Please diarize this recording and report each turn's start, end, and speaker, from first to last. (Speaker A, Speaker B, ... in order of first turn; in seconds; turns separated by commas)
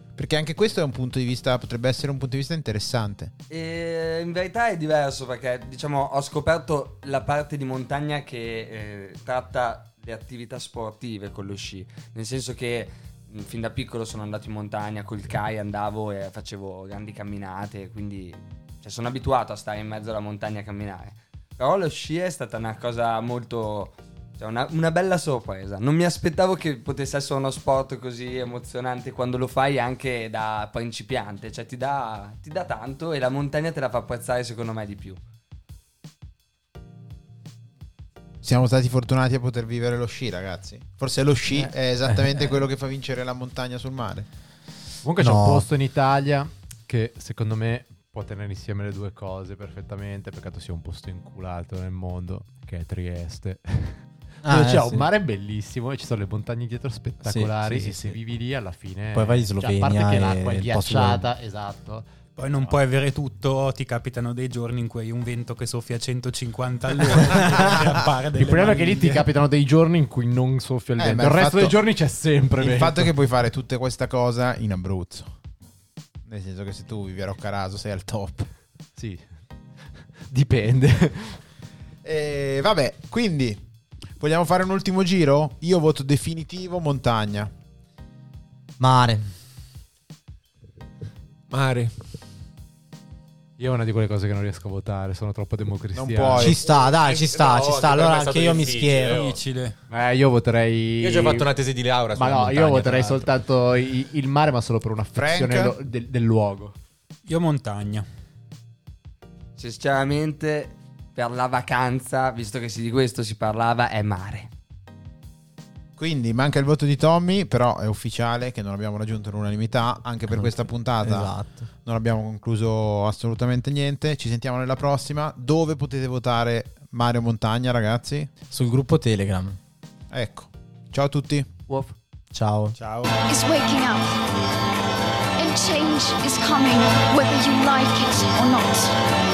Speaker A: 0.2-3.3, Speaker B: 3.5-35.2, Speaker A: 38.4-44.3, Speaker C: 41.5-42.5, Speaker D: 45.0-62.1, Speaker C: 45.2-45.7, Speaker C: 54.5-55.1, Speaker C: 57.2-58.2, Speaker C: 59.1-61.3, Speaker E: 62.4-69.3, Speaker D: 68.4-73.1, Speaker A: 71.0-71.8, Speaker A: 72.6-75.3, Speaker A: 76.3-78.5, Speaker D: 79.0-81.4, Speaker A: 82.0-83.6, Speaker A: 84.2-87.5, Speaker C: 88.8-89.3, Speaker F: 91.5-91.9, Speaker D: 93.6-96.5, Speaker A: 95.9-96.6, Speaker C: 96.4-99.3, Speaker F: 96.6-99.4, Speaker E: 99.1-99.8, Speaker D: 99.9-101.5, Speaker F: 101.0-103.3, Speaker D: 102.2-106.8, Speaker A: 105.2-105.8, Speaker E: 107.3-108.1, Speaker B: 109.6-114.5, Speaker A: 116.0-121.3, Speaker C: 120.3-121.7, Speaker A: 121.8-128.3, Speaker C: 128.5-129.6, Speaker A: 130.1-131.5, Speaker D: 131.7-131.9, Speaker C: 132.3-132.8, Speaker E: 132.8-133.2, Speaker G: 133.3-134.2, Speaker G: 135.4-139.0